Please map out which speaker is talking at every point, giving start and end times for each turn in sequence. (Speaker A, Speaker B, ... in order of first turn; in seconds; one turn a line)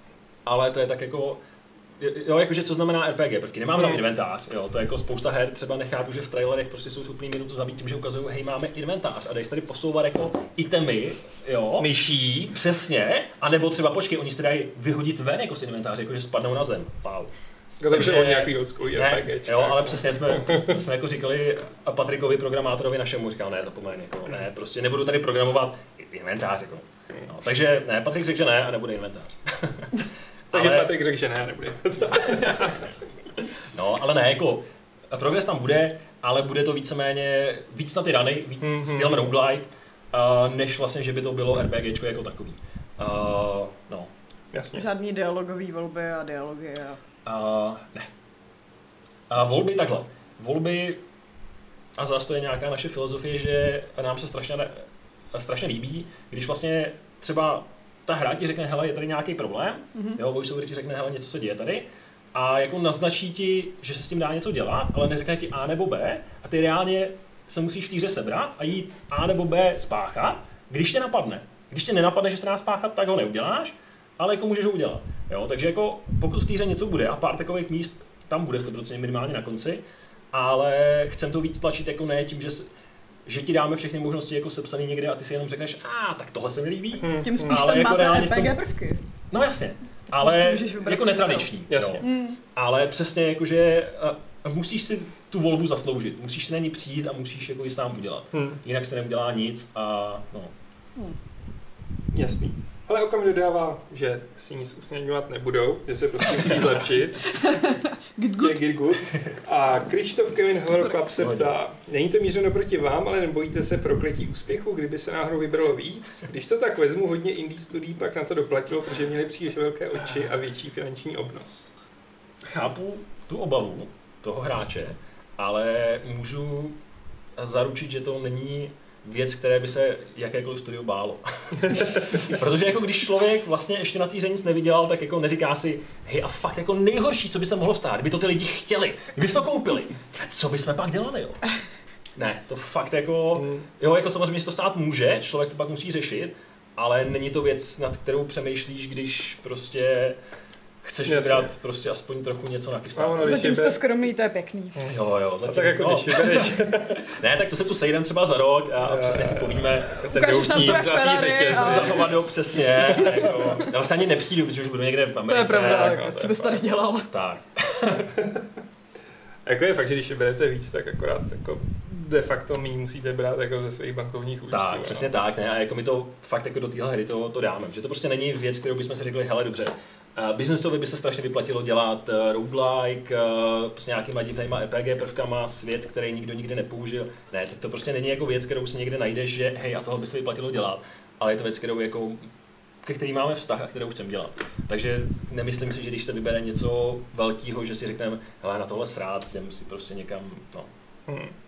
Speaker A: 0.4-1.4
Speaker A: 2.0-11.9
Speaker B: 11.8-12.5
Speaker A: 12.5-17.3
Speaker B: 17.8-20.7
Speaker A: 17.9-30.0
Speaker A: 30.5-30.9
Speaker B: 30.5-32.8
Speaker A: 32.1-32.8
Speaker A: 33.7-44.1
Speaker B: 38.6-39.2
Speaker B: 44.5-44.8
Speaker C: 44.7-47.0
Speaker A: 47.2-48.1
Speaker A: 49.3-51.0
Speaker A: 52.0-82.7
Speaker C: 59.9-60.2
Speaker A: 83.2-88.6
Speaker B: 87.0-87.6
Speaker C: 87.2-89.0
Speaker A: 89.3-100.5
Speaker C: 90.1-92.4
Speaker B: 91.7-92.0
Speaker B: 98.3-98.6
Speaker B: 102.1-107.5
Speaker C: 107.3-108.6
Speaker B: 108.3-121.7
Speaker C: 110.7-111.0
Speaker A: 111.2-111.5
Speaker A: 122.4-126.8
Speaker A: 127.3-141.5
Speaker A: 142.2-150.2
Speaker B: 143.3-143.7
Speaker A: 150.8-153.5
Speaker B: 151.1-151.5
Speaker B: 152.9-153.8
Speaker C: 153.2-154.8
Speaker B: 154.8-157.1
Speaker A: 154.9-166.1
Speaker B: 158.8-162.2
Speaker C: 160.1-162.1
Speaker B: 162.7-163.7
Speaker C: 165.2-167.1
Speaker B: 165.5-166.6
Speaker A: 167.1-168.2
Speaker B: 169.4-175.1
Speaker A: 174.5-192.3
Speaker A: 192.8-200.7
Speaker B: 201.1-201.3